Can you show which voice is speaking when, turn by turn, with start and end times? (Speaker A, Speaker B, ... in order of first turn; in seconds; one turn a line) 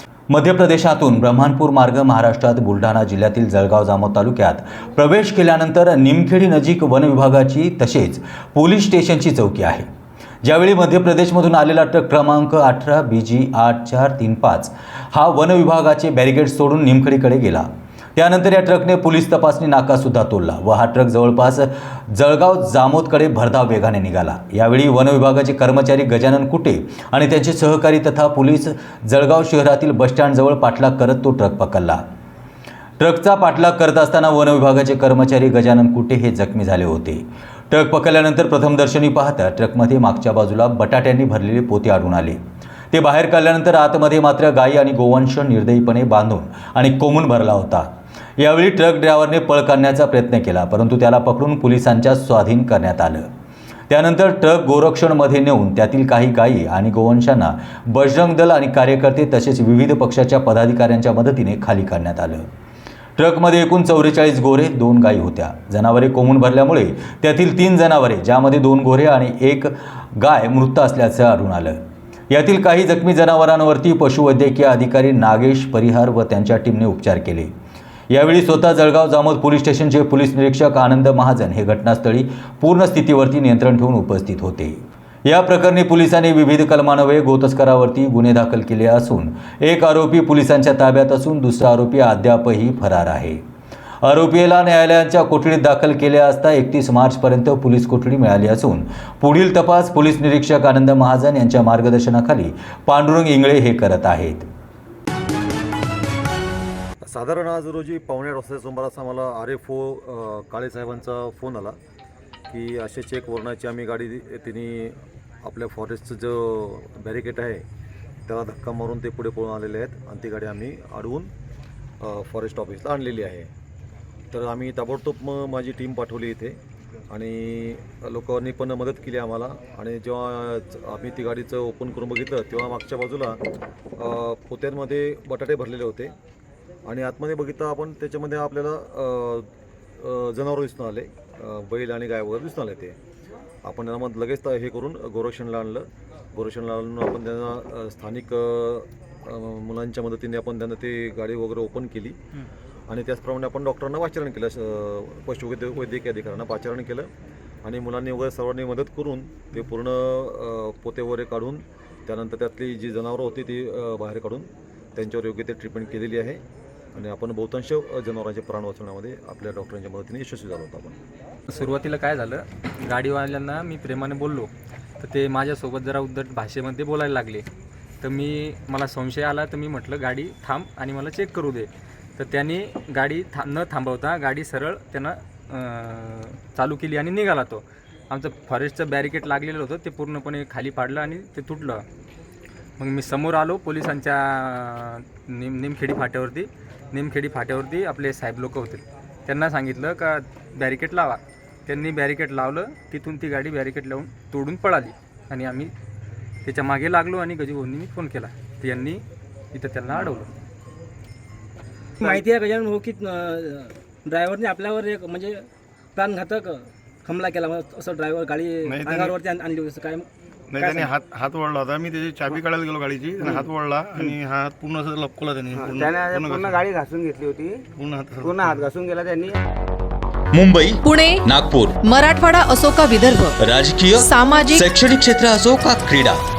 Speaker A: 0.3-9.8
Speaker A: 10.4-32.0
Speaker A: 33.0-42.4
Speaker A: 42.9-53.3
Speaker A: 53.9-62.5
Speaker A: 63.2-71.8
Speaker A: 72.3-77.5
Speaker A: 78.1-93.4
Speaker A: 94.0-104.5
Speaker B: 107.0-111.8
Speaker B: 112.5-117.6
Speaker B: 118.3-121.3
Speaker B: 122.0-123.5
Speaker B: 124.3-126.6
Speaker B: 127.1-133.4
Speaker B: 134.0-136.1
Speaker B: 136.8-143.0
Speaker B: 143.7-152.2
Speaker B: 152.9-157.1
Speaker B: 157.6-166.4
Speaker B: 166.9-171.0
Speaker C: 171.5-177.5
Speaker C: 178.0-191.8
Speaker C: 192.8-205.7
Speaker C: 206.4-210.3
Speaker D: 212.0-220.9
Speaker E: 218.7-219.2
Speaker E: 220.5-226.7
Speaker F: 225.6-227.6
Speaker E: 227.8-228.7
Speaker F: 228.2-229.4
Speaker A: 230.3-231.8
Speaker G: 230.8-231.2
Speaker G: 231.8-233.3
Speaker A: 233.4-236.2
Speaker G: 234.0-234.6